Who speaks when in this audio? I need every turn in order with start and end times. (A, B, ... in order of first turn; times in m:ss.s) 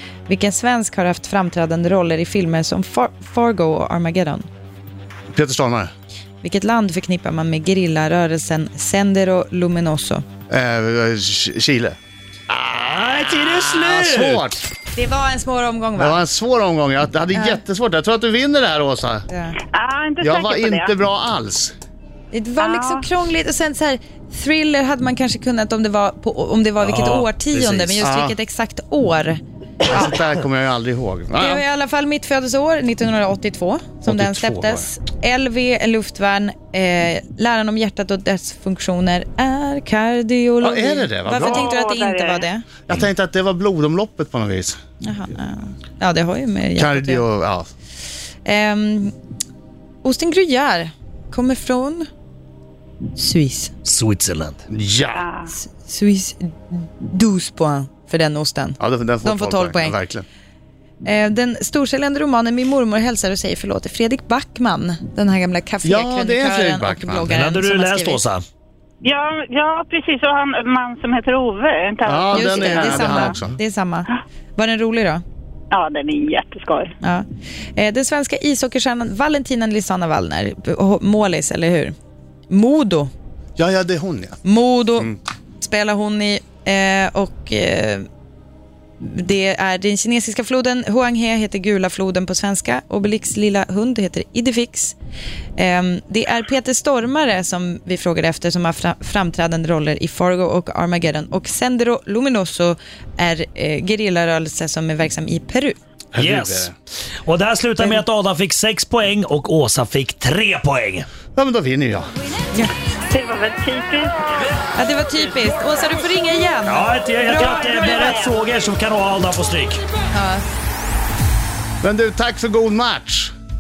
0:00.3-0:04.4 A
0:05.3-0:05.9 B
0:06.4-0:10.2 A
0:10.5-0:12.0 B
0:12.5-0:14.4 C
0:13.7-0:14.6 B
0:14.9-0:16.2 A
0:16.0-0:19.3 B
0:17.3-0:17.6 A
0:19.3-0:19.6 A
0:19.7-0:20.9 D
0:20.2-0:21.7 B
0:22.3-0:29.4 A
0:22.6-0:23.1 D
0:26.8-0:28.0 C
0:28.0-0:28.4 B
0:29.9-0:31.6 B
0:31.4-0:42.6 A
0:34.1-0:34.9 B
0:40.6-0:41.7 B
0:41.4-0:42.5 D
0:42.9-0:44.8 B
0:45.0-0:47.2 A
0:46.8-0:47.7 B
0:48.4-0:49.1 A
0:50.0-0:52.1 A
0:53.2-0:53.7 A
0:53.8-0:54.6 C
0:54.7-0:55.2 B
0:55.1-0:55.5 D
0:55.6-1:00.0 A
0:58.8-1:00.3 B
1:01.0-1:08.2 A
1:05.8-1:07.3 B
1:07.3-1:08.4 C
1:09.0-1:13.4 D
1:12.1-1:13.6 B
1:12.3-1:15.2 A
1:15.7-1:16.9 D
1:17.0-1:22.0 A
1:22.5-1:23.1 A
1:23.6-1:24.4 B
1:24.4-1:28.1 A
1:29.0-1:35.0 A
1:35.6-1:45.8 A
1:46.1-1:46.7 B
1:46.2-1:46.7 C
1:47.2-1:51.1 C
1:51.3-1:52.1 B
1:53.1-1:54.3 D
1:54.8-1:57.7 A
1:56.7-1:59.8 C
1:57.4-1:58.3 D
2:00.1-2:00.4 A
2:01.8-2:03.3 B